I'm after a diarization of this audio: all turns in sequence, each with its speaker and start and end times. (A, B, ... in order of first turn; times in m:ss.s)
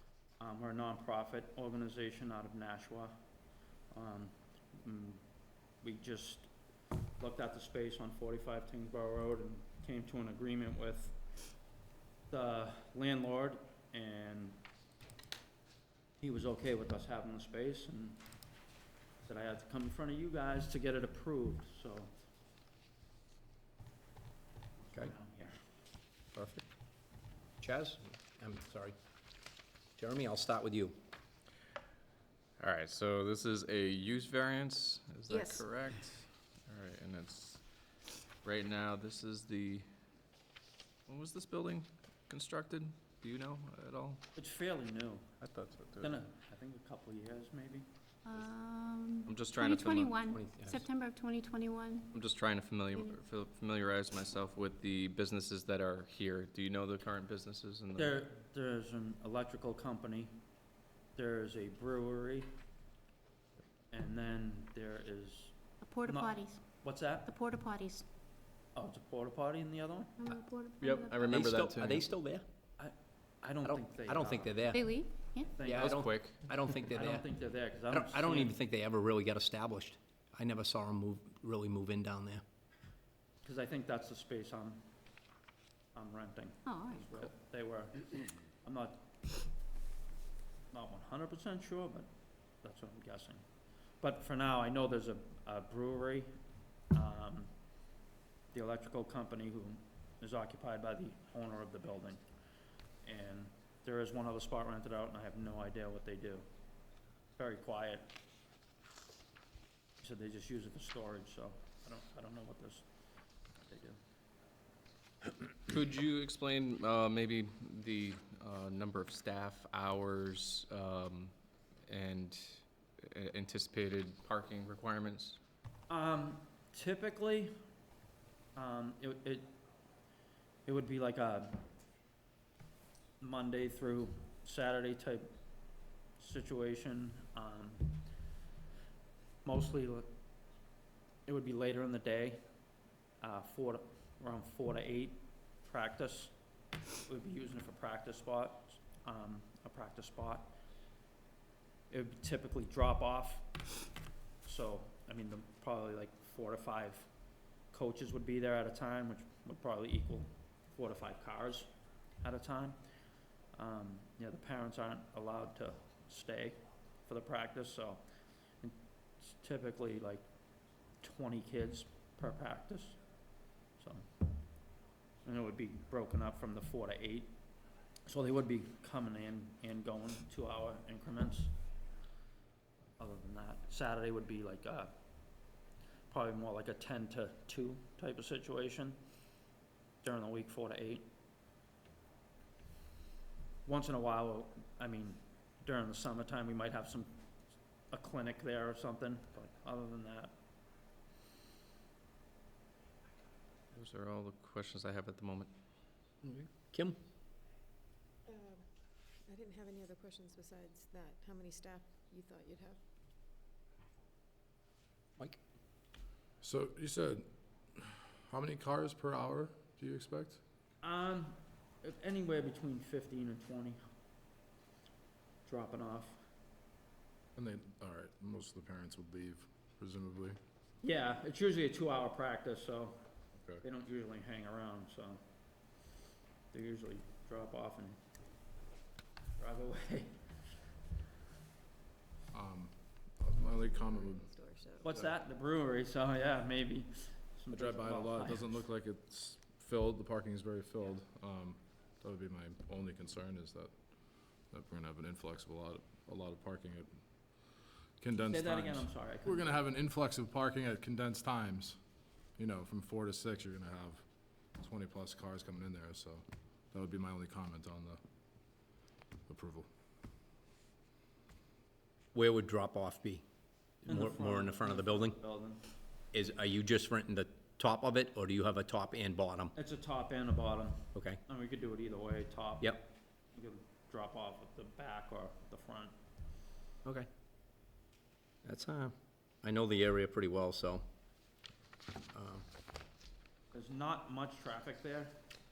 0:00.4-0:03.1 A
0:03.9-0:05.2 A
0:05.8-0:06.5 A
0:07.2-0:11.2 A
0:12.3-0:14.6 A
0:16.2-0:18.2 A
0:19.2-0:22.1 A
0:24.8-0:25.6 A
0:26.3-0:26.6 B
0:27.6-0:28.9 B
0:30.0-0:31.0 B
0:32.6-0:37.6 C
0:35.3-0:35.6 D
0:38.4-0:39.8 C
0:41.1-0:44.2 C
0:44.4-0:45.3 A
0:45.4-0:46.1 C
0:46.0-0:47.9 A
0:48.2-0:52.1 D
0:49.2-0:50.2 C
0:50.3-0:50.8 B
0:52.1-0:58.1 C
0:58.0-1:00.3 A
1:01.1-1:02.6 A
1:03.9-1:07.4 A
1:05.8-1:06.6 D
1:07.2-1:08.0 D
1:08.7-1:10.2 A
1:10.2-1:11.4 D
1:10.8-1:12.0 C
1:11.2-1:12.4 B
1:12.8-1:14.8 A
1:13.6-1:14.9 B
1:14.7-1:15.5 D
1:15.5-1:16.0 A
1:15.6-1:17.3 B
1:15.6-1:16.4 C
1:16.8-1:18.6 A
1:17.9-1:22.4 B
1:23.4-1:24.9 A
1:25.9-1:29.1 A
1:26.6-1:27.2 D
1:30.7-1:32.1 A
1:32.6-1:33.4 A
1:34.0-1:36.4 A
1:36.9-1:37.5 A
1:38.5-1:42.2 A
1:43.0-1:46.4 A
1:47.4-1:48.1 A
1:50.0-1:52.8 A
1:53.6-1:54.0 A
1:55.5-2:01.3 C
2:01.9-2:05.4 C
2:05.9-2:07.5 A
2:08.6-2:09.6 A
2:10.6-2:11.6 A
2:13.2-2:15.4 A
2:16.2-2:18.0 A
2:19.4-2:20.1 A
2:21.2-2:22.4 A
2:23.2-2:26.3 A
2:27.0-2:30.6 A
2:31.9-2:33.5 A
2:34.4-2:37.1 A
2:37.7-2:41.7 A
2:42.2-2:42.8 A
2:43.5-2:48.0 A
2:48.6-2:50.2 A
2:51.0-2:53.0 A
2:53.8-2:54.1 A
2:55.2-2:57.4 A
2:58.0-3:01.5 A
3:03.0-3:04.9 A
3:06.1-3:09.0 A
3:10.0-3:11.1 A
3:13.6-3:17.2 A
3:17.9-3:20.3 A
3:23.7-3:25.5 C
3:26.2-3:27.0 B
3:28.3-3:28.6 E
3:29.3-3:32.8 E
3:36.4-3:40.4 F
3:40.8-3:43.8 A
3:45.4-3:46.2 A
3:47.4-3:50.4 F
3:50.8-3:53.0 A
3:53.6-3:55.2 A
3:56.5-3:58.0 A
3:59.4-4:00.2 A
4:02.3-4:04.3 F
4:03.4-4:04.8 E
4:04.8-4:08.6 A
4:07.5-4:13.7 F
4:14.4-4:16.9 F
4:18.0-4:21.8 F
4:18.3-4:19.5 A
4:22.4-4:28.0 F
4:29.3-4:29.7 F
4:32.1-4:33.2 B
4:33.8-4:35.6 A
4:33.9-4:35.2 B
4:36.1-4:39.5 B
4:39.6-4:45.9 A
4:40.9-4:41.2 B
4:48.4-4:50.8 B
4:52.1-4:52.4 B
4:53.5-4:55.2 A